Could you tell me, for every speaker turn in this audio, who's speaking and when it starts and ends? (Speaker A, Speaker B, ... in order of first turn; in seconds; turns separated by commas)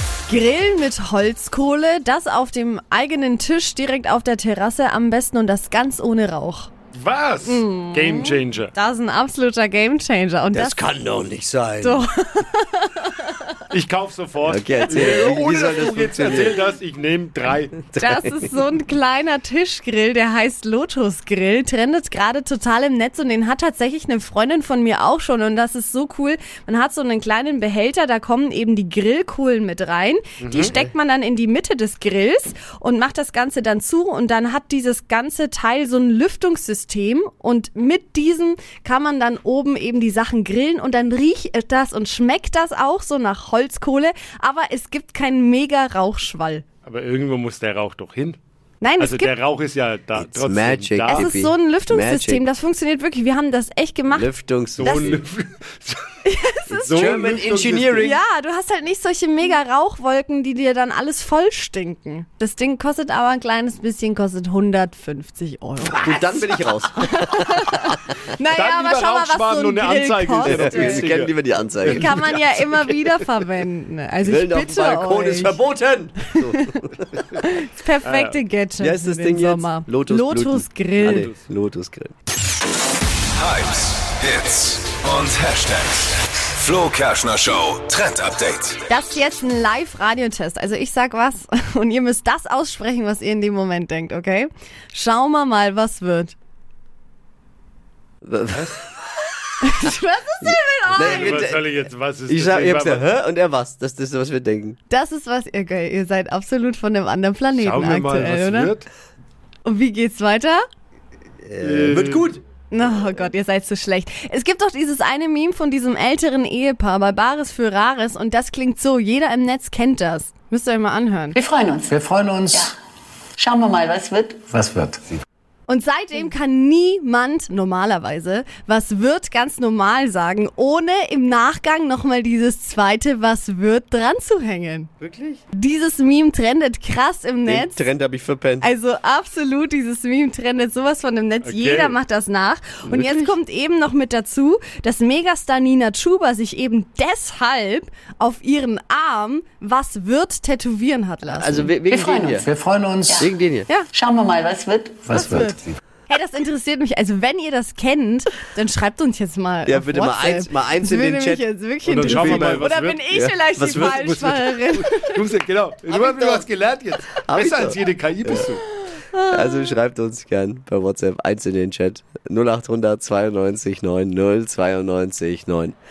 Speaker A: 0.3-6.7, Speaker B: 6.9-8.7, Speaker A: 7.4-10.8, Speaker C: 10.5-12.1, Speaker A: 11.8-13.6, Speaker B: 13.7-17.8, Speaker C: 14.4-16.6, Speaker A: 14.9-15.3, Speaker C: 17.9-18.5, Speaker A: 17.9-46.6, Speaker B: 30.4-30.8, Speaker B: 46.9-48.4, Speaker A: 48.8-49.3, Speaker B: 49.0-51.3, Speaker C: 50.2-52.4, Speaker A: 51.1-54.3, Speaker C: 54.1-55.2, Speaker B: 54.8-56.1, Speaker A: 54.8-55.2, Speaker A: 56.2-57.1, Speaker B: 56.7-58.2, Speaker C: 56.8-58.2, Speaker A: 58.0-71.1, Speaker C: 65.9-68.0, Speaker B: 68.5-73.3, Speaker C: 70.4-72.2, Speaker A: 71.8-75.6, Speaker C: 74.2-77.2, Speaker A: 76.2-76.8, Speaker A: 77.4-81.3, Speaker B: 78.0-78.4, Speaker C: 78.8-82.1, Speaker D: 83.3-88.8, Speaker A: 88.9-96.3, Speaker C: 98.2-99.3, Speaker A: 99.6-101.4, Speaker C: 100.4-101.6, Speaker B: 100.9-103.0, Speaker C: 102.3-104.8, Speaker A: 104.9-108.7, Speaker B: 107.5-108.9, Speaker A: 109.6-110.6, Speaker C: 111.4-112.4, Speaker B: 111.6-112.3, Speaker A: 112.7-121.4, Speaker E: 121.3-121.9, Speaker F: 121.9-122.7, Speaker E: 123.4-124.5, Speaker F: 124.5-125.0, Speaker A: 125.7-134.9, Speaker C: 135.0-135.4, Speaker A: 135.5-137.9, Speaker C: 137.4-138.7, Speaker A: 138.6-151.7, Speaker B: 141.4-142.0, Speaker C: 142.8-143.4, Speaker C: 151.3-152.5, Speaker E: 151.9-152.4, Speaker F: 152.3-153.2, Speaker C: 153.2-153.7, Speaker E: 153.9-155.1, Speaker F: 155.0-155.8, Speaker A: 155.1-165.2, Speaker C: 159.7-161.4, Speaker B: 161.8-163.0, Speaker C: 162.0-164.1, Speaker B: 163.7-168.6, Speaker C: 165.9-166.4, Speaker C: 167.2-168.5, Speaker A: 168.8-169.8, Speaker C: 169.2-175.8